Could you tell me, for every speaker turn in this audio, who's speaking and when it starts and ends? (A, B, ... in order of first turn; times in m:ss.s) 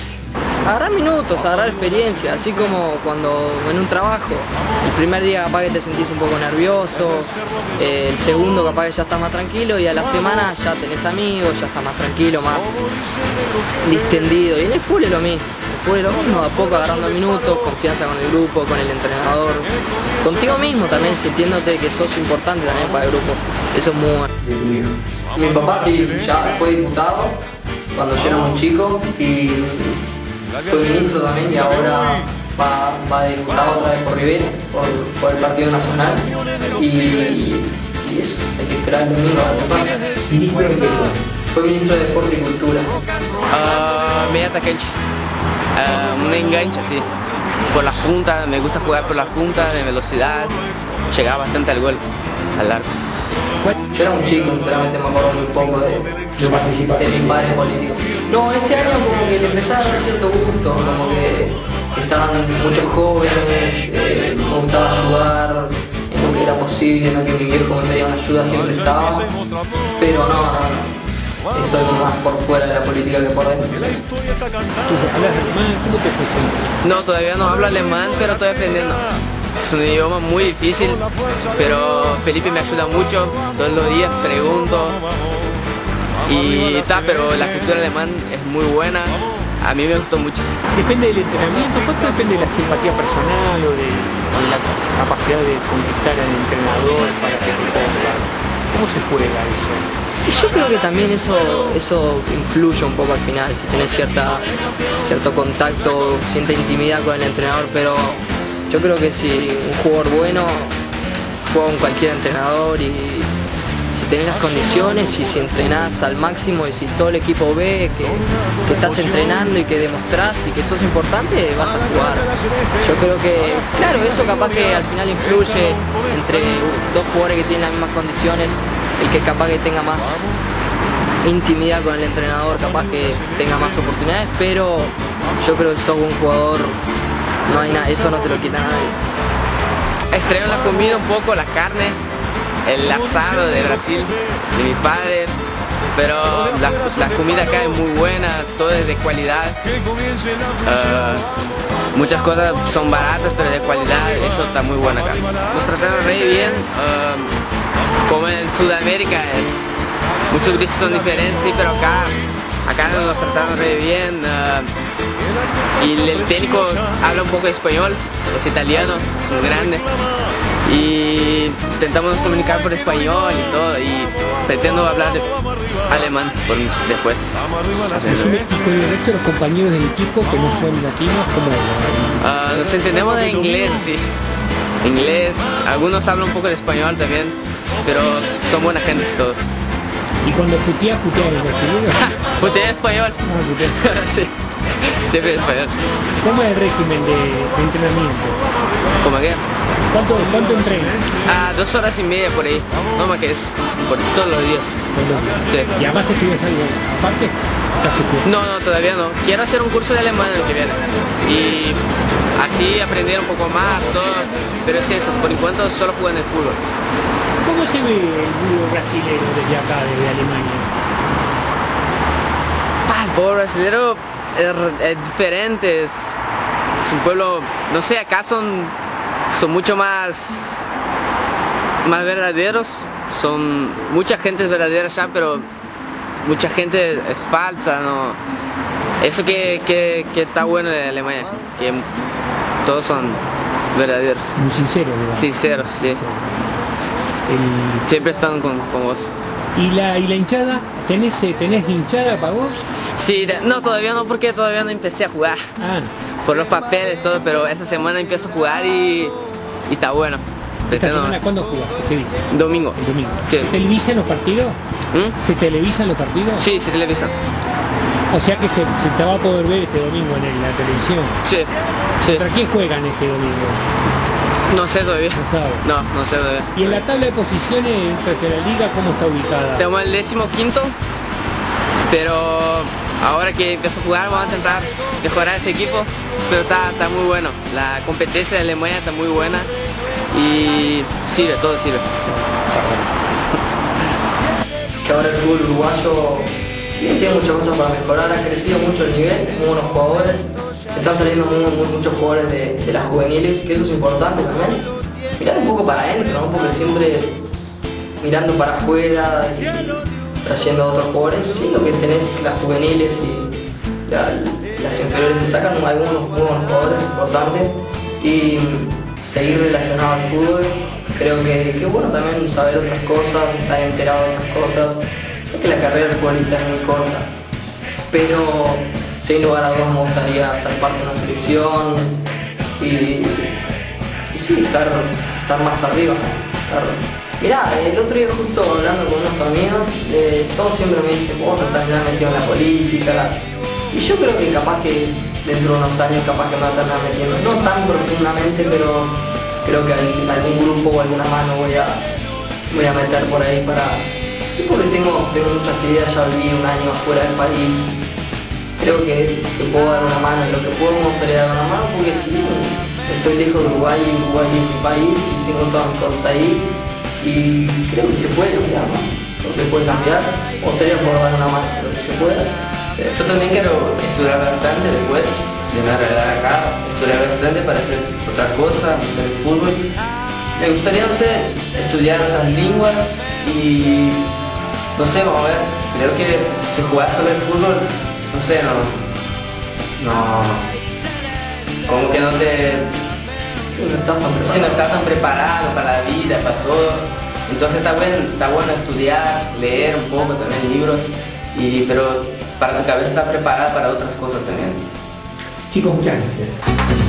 0:00.6-0:12.9 A
0:13.8-0:19.7 A
0:20.2-0:24.3 A
0:24.4-0:24.9 B
0:25.3-0:27.4 A
0:27.9-0:30.0 A
0:30.6-0:40.0 A
0:40.2-0:41.2 B
0:41.5-0:43.0 A
0:43.5-0:45.0 C
0:45.8-0:47.1 C
0:47.7-0:50.6 C
0:51.1-0:52.0 C
0:52.6-0:52.9 C
0:53.9-0:56.1 A
0:56.4-0:57.5 B
0:57.0-1:09.3 A
1:10.0-1:11.0 A
1:11.5-1:14.0 A
1:14.8-1:16.7 B
1:16.8-1:19.1 C
1:19.6-1:25.0 C
1:26.2-1:30.5 C
1:30.7-1:39.9 B
1:40.2-1:44.4 A
1:45.0-1:50.8 A
1:51.5-1:53.3 A
1:53.9-2:10.3 A
2:11.2-2:16.8 A
2:17.5-2:19.0 A
2:20.1-2:22.0 C
2:22.7-2:25.3 C
2:26.0-2:29.6 C
2:30.6-2:31.3 C
2:31.9-2:37.3 C
2:38.0-2:39.6 C
2:40.3-2:44.7 C
2:45.8-2:49.8 C
2:50.6-2:55.3 C
2:55.9-2:58.4 C
2:58.0-3:02.2 B
3:02.2-3:04.0 C
3:04.8-3:09.5 C
3:10.2-3:12.1 B
3:11.9-3:15.8 C
3:13.2-3:13.9 B
3:16.2-3:18.4 B
3:19.0-3:19.4 C
3:19.9-3:21.1 B
3:21.2-3:24.8 C
3:24.9-3:28.3 B
3:25.5-3:25.7 C
3:28.2-3:31.8 C
3:32.4-3:36.6 C
3:37.4-3:40.7 B
3:42.8-3:46.2 C
3:46.8-3:48.7 C
3:49.3-3:50.6 C
3:51.8-3:55.5 C
3:56.2-3:58.2 C
3:59.0-4:01.9 C
4:02.6-4:03.2 C
4:03.7-4:04.4 C
4:04.4-4:06.4 B
4:05.1-4:06.0 C
4:07.3-4:07.8 B
4:07.8-4:09.1 C
4:09.5-4:12.6 B
4:13.0-4:15.4 C
4:15.6-4:15.9 B
4:16.2-4:19.1 C
4:19.7-4:21.2 C
4:20.7-4:22.2 B
4:22.3-4:23.6 C
4:22.8-4:24.6 B
4:25.2-4:26.4 B
4:26.4-4:27.2 C
4:28.1-4:31.2 B
4:31.2-4:32.2 C
4:32.1-4:33.6 B
4:34.5-4:36.8 C
4:35.1-4:35.6 B
4:36.5-4:39.7 B
4:39.6-4:40.8 C
4:41.9-4:49.5 C
4:50.1-4:51.9 C
4:52.0-4:52.9 B
4:54.8-5:04.6 A
5:05.2-5:07.2 A
5:08.0-5:13.3 A
5:13.9-5:27.1 A
5:27.9-5:32.0 A
5:32.6-5:33.4 A
5:34.1-5:43.2 A
5:43.7-5:51.9 A
5:52.5-5:57.7 A
5:58.6-6:06.5 A
6:07.0-6:13.0 A
6:13.0-6:19.7 C
6:20.4-6:24.1 C
6:24.8-6:28.8 C
6:29.8-6:30.4 C
6:31.6-6:32.7 C
6:33.6-6:34.6 A
6:34.2-6:44.6 C
6:45.5-6:46.4 B